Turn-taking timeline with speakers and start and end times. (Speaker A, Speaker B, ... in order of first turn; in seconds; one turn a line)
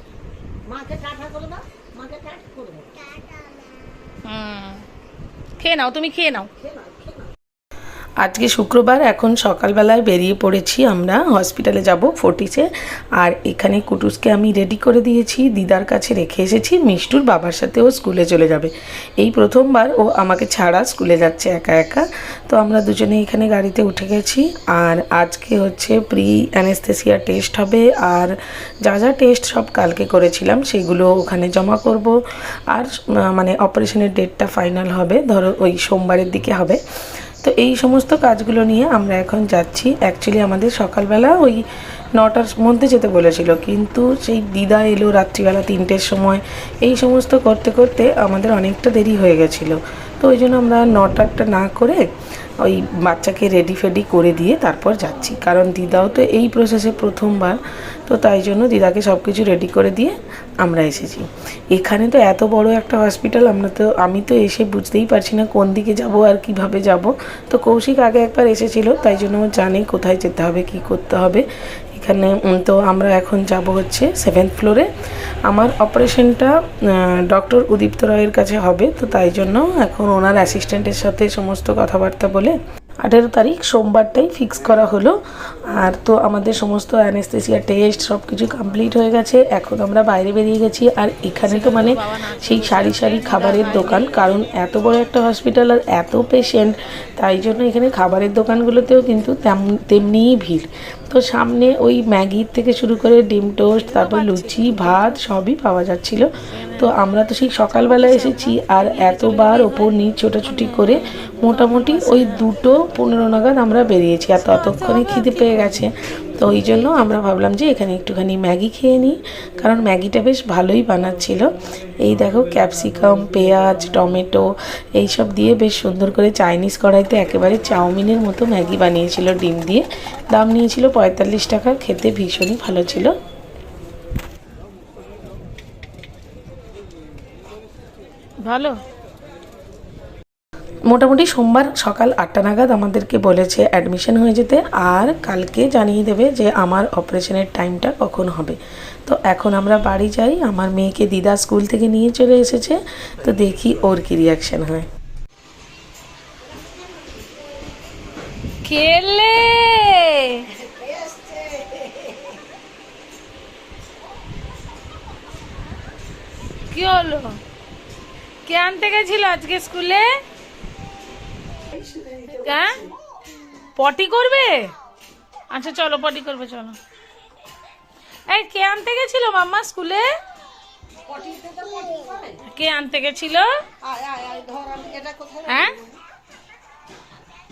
Speaker A: 0.7-2.9
Speaker B: 4.2-4.8
Speaker B: 5.6-6.5
Speaker A: 6.6-7.0
Speaker C: 8.2-32.1
Speaker C: 32.7-36.8
Speaker C: 37.4-41.6
Speaker C: 42.1-52.1
Speaker C: 52.6-74.9
Speaker C: 75.5-85.1
Speaker C: 85.7-121.5
Speaker B: 91.4-94.2
Speaker B: 103.8-105.2
Speaker B: 107.7-109.9
Speaker B: 110.4-112.5
Speaker B: 114.5-115.8
Speaker C: 122.0-133.1
Speaker B: 138.4-138.8
Speaker C: 140.9-154.9
Speaker B: 158.6-160.4
Speaker A: 160.6-162.1
Speaker B: 166.7-167.4
Speaker B: 168.4-170.2
Speaker A: 171.8-172.2
Speaker B: 172.3-172.8
Speaker B: 173.8-174.7
Speaker B: 175.5-176.8
Speaker B: 178.3-180.1
Speaker A: 181.2-182.3
Speaker B: 182.3-183.5
Speaker A: 183.8-185.6
Speaker B: 185.4-185.8